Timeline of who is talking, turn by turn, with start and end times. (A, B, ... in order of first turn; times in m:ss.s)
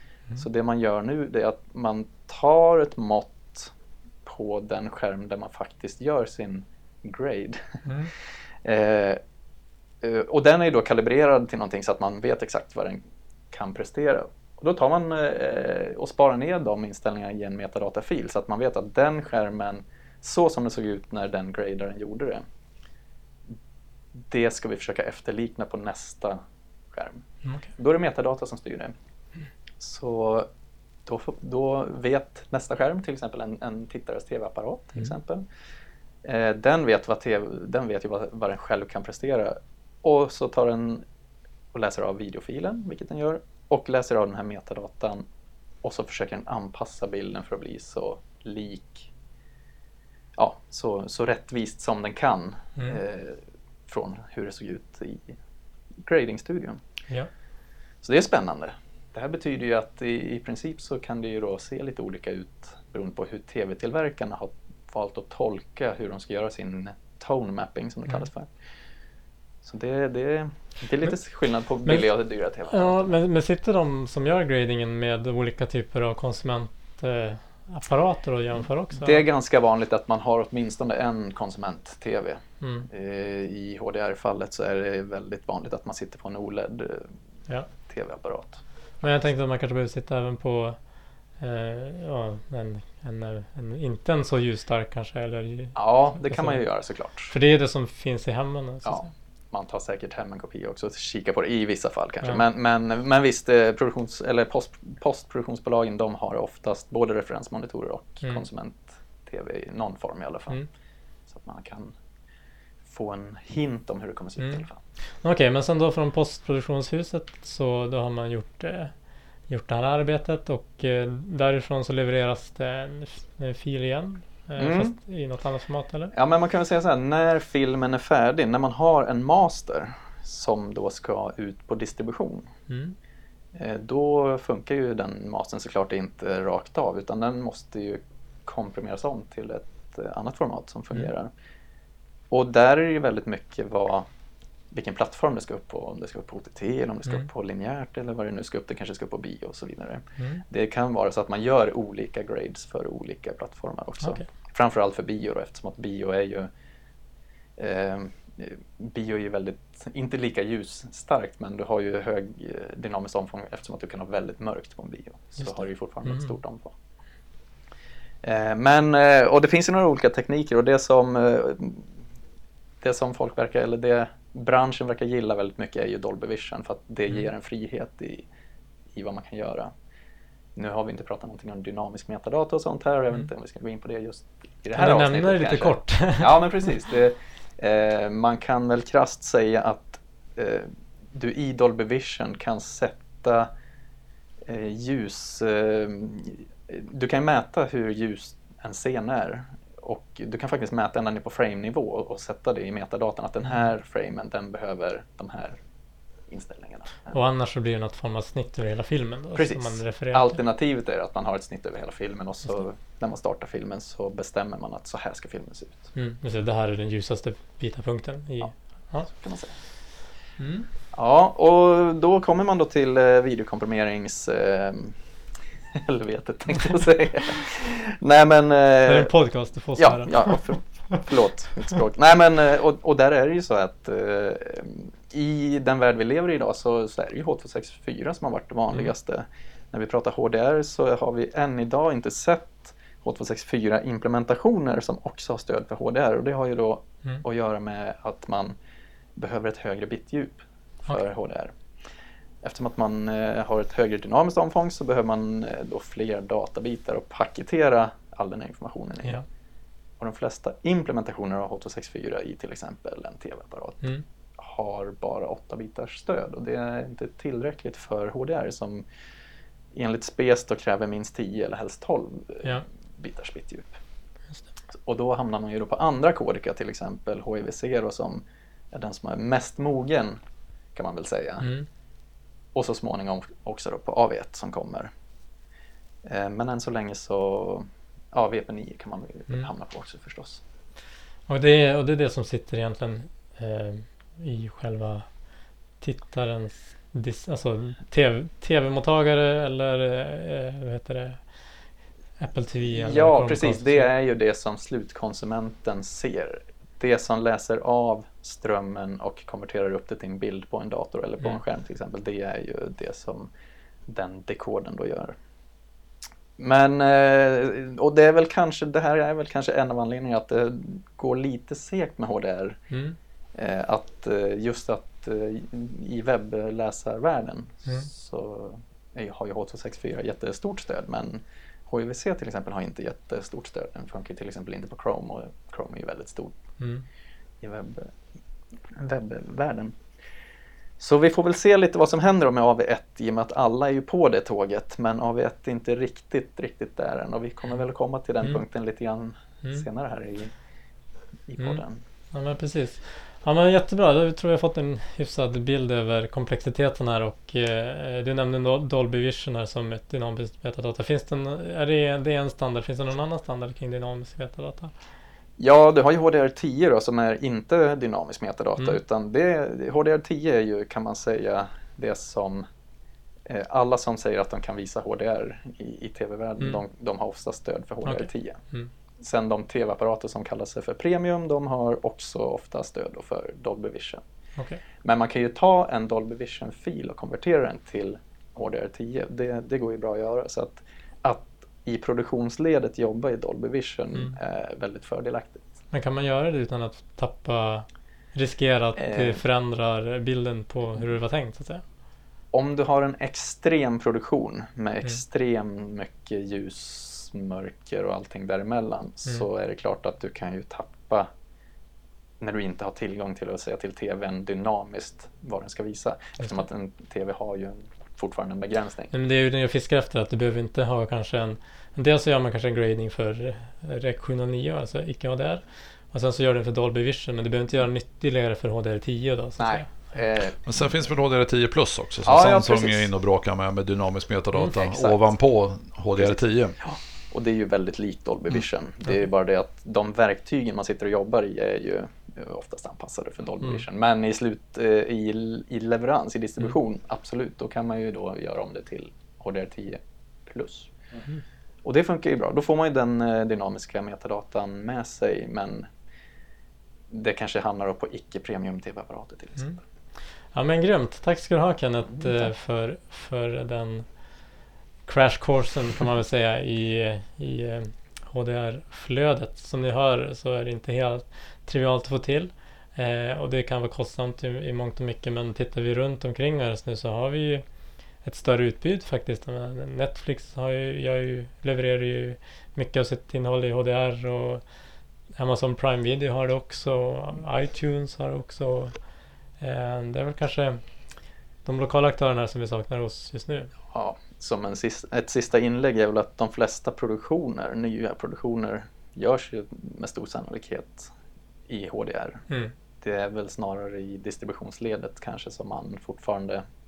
0:00.4-0:03.7 A
0:04.2-0:07.8 A
0:07.9-0:08.1 B
0:08.6-0:09.2 A
0:10.0-0:22.4 A
0:24.2-0:26.4 A
0:26.9-0:27.2 A
0:27.4-0:27.7 B
0:27.8-0:29.0 A
0:29.8-0:30.5 A
0:31.1-0:35.4 A
0:36.2-0:41.0 A
0:41.7-0:45.2 A
0:45.8-0:49.1 A
0:50.4-0:55.4 A
0:56.0-0:56.8 A
0:58.0-1:08.5 A
1:09.6-1:13.1 A
1:12.7-1:19.2 B
1:18.9-1:27.1 A
1:22.6-1:22.9 B
1:27.9-1:28.6 A
1:29.0-1:36.7 B
1:35.8-1:37.3 A
1:37.3-1:39.1 B
1:38.8-1:50.6 A
1:51.3-1:51.9 A
1:52.9-1:54.8 A
1:54.4-1:54.7 B
1:55.2-1:58.9 B
1:59.5-2:06.1 B
2:04.6-2:05.0 A
2:06.1-2:12.5 A
2:12.7-2:13.0 B
2:13.6-2:21.3 A
2:22.3-2:24.1 A
2:24.7-2:36.5 A
2:30.2-2:30.4 B
2:37.6-2:46.7 A
2:45.4-2:46.4 B
2:48.2-2:51.9 A
2:52.8-2:58.2 A
2:58.9-2:59.7 A
3:00.6-3:13.5 A
3:04.8-3:06.5 B
3:14.4-3:25.6 A
3:26.3-3:27.2 A
3:27.1-3:30.4 B
3:29.4-3:35.9 A
3:36.0-3:39.1 B
3:38.4-3:39.6 A
3:40.4-3:40.7 B
3:40.9-3:45.0 A
3:45.8-3:49.1 A
3:48.8-3:51.0 B
3:49.8-4:08.6 A
4:09.2-4:11.6 A
4:12.4-4:19.2 A
4:20.0-4:28.8 A
4:29.7-4:33.8 A
4:34.8-4:40.2 A
4:40.8-4:41.5 A
4:41.4-4:41.7 B
4:42.5-4:44.9 A
4:46.0-4:50.4 A
4:51.3-4:55.2 B
4:55.8-5:01.3 B
5:02.2-5:03.9 B
5:02.7-5:13.3 A
5:13.9-5:15.2 A
5:16.4-5:22.6 A
5:22.7-5:23.0 B
5:23.4-5:36.4 A
5:36.6-5:36.8 B
5:37.4-5:37.9 A
5:38.7-5:39.8 A
5:40.8-5:50.3 A
5:51.3-5:51.8 A
5:51.4-6:04.7 B
6:05.4-6:12.5 A
6:13.3-6:18.4 A
6:17.8-6:18.7 B
6:19.0-6:24.0 A
6:24.8-6:35.4 A
6:35.7-6:41.6 B
6:38.8-6:39.2 A
6:42.3-6:51.1 A
6:52.2-6:58.9 A
6:58.9-7:10.0 B
7:09.4-7:10.4 A
7:10.4-7:16.6 C
7:12.1-7:12.9 A
7:14.5-7:15.0 A
7:16.0-7:30.7 A
7:31.6-7:35.7 A
7:36.9-7:39.6 A
7:40.3-7:44.3 B
7:41.9-7:42.3 A
7:44.9-7:57.4 B
7:58.0-8:04.4 B
8:05.2-8:08.8 B
8:09.4-8:10.6 B
8:11.4-8:13.5 B
8:13.7-8:20.9 A
8:21.5-8:22.2 A
8:22.8-8:26.4 A